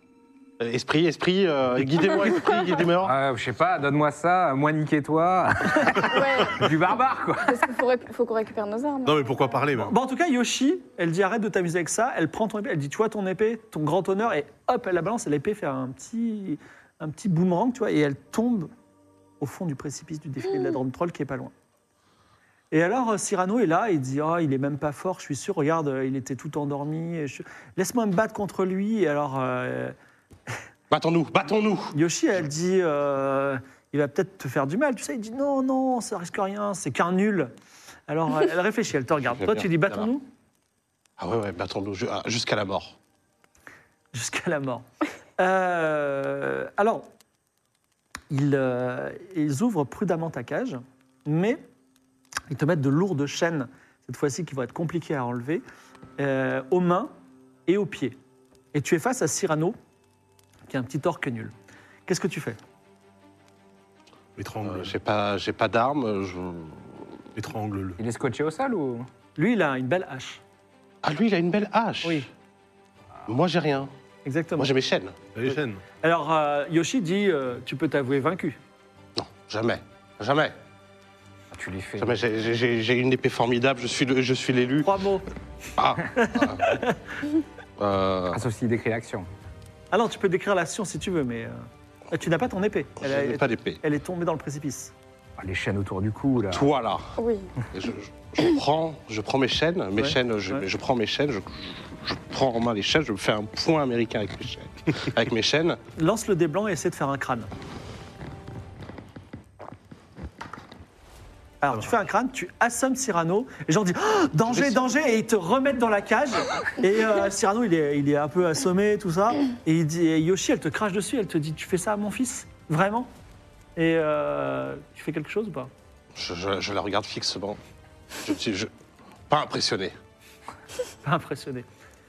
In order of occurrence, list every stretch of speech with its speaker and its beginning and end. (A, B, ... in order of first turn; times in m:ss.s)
0:00.6-0:03.2 A
0:03.0-0:07.7 B
0:06.0-0:06.7 C
0:07.5-0:09.6 C
0:09.0-0:09.9 D
0:09.7-0:18.7 E
0:19.4-0:21.5 E
0:22.7-0:29.9 E
0:30.9-0:31.9 A
0:31.9-0:37.5 E
0:38.1-0:40.2 E
0:39.3-0:40.1 A
0:41.2-0:43.0 A
0:44.1-0:44.8 E
0:45.4-0:47.1 E
0:48.3-0:51.6 E
0:52.5-0:55.6 E
0:56.2-0:57.1 E
0:57.7-0:58.2 E
0:58.7-0:59.8 E
1:00.7-1:01.5 E
1:02.1-1:02.6 E
1:04.4-1:04.9 D
1:04.6-1:07.0 A
1:07.4-1:08.0 D
1:08.0-1:09.1 B
1:09.4-1:10.4 E
1:11.0-1:12.3 A
1:12.0-1:12.3 E
1:13.3-1:13.9 A
1:14.2-1:14.7 E
1:14.6-1:15.3 A
1:15.3-1:15.8 D
1:16.0-1:18.6 E
1:19.2-1:20.5 A
1:21.5-1:22.2 B
1:22.0-1:24.9 A
1:24.8-1:25.2 E
1:25.8-1:26.8 A
1:26.2-1:27.0 E
1:27.8-1:28.4 A
1:28.3-1:29.3 B
1:29.9-1:34.9 E
1:33.0-1:33.8 A
1:35.4-1:36.7 B
1:36.5-1:37.1 A
1:37.2-1:37.5 C
1:37.7-1:45.8 A
1:40.0-1:40.6 E
1:46.0-1:47.5 E
1:51.6-2:03.1 E
1:54.5-1:54.8 A
2:03.8-2:05.7 E
2:06.1-2:07.6 A
2:08.2-2:08.7 A
2:09.3-2:09.9 A
2:11.0-2:11.6 E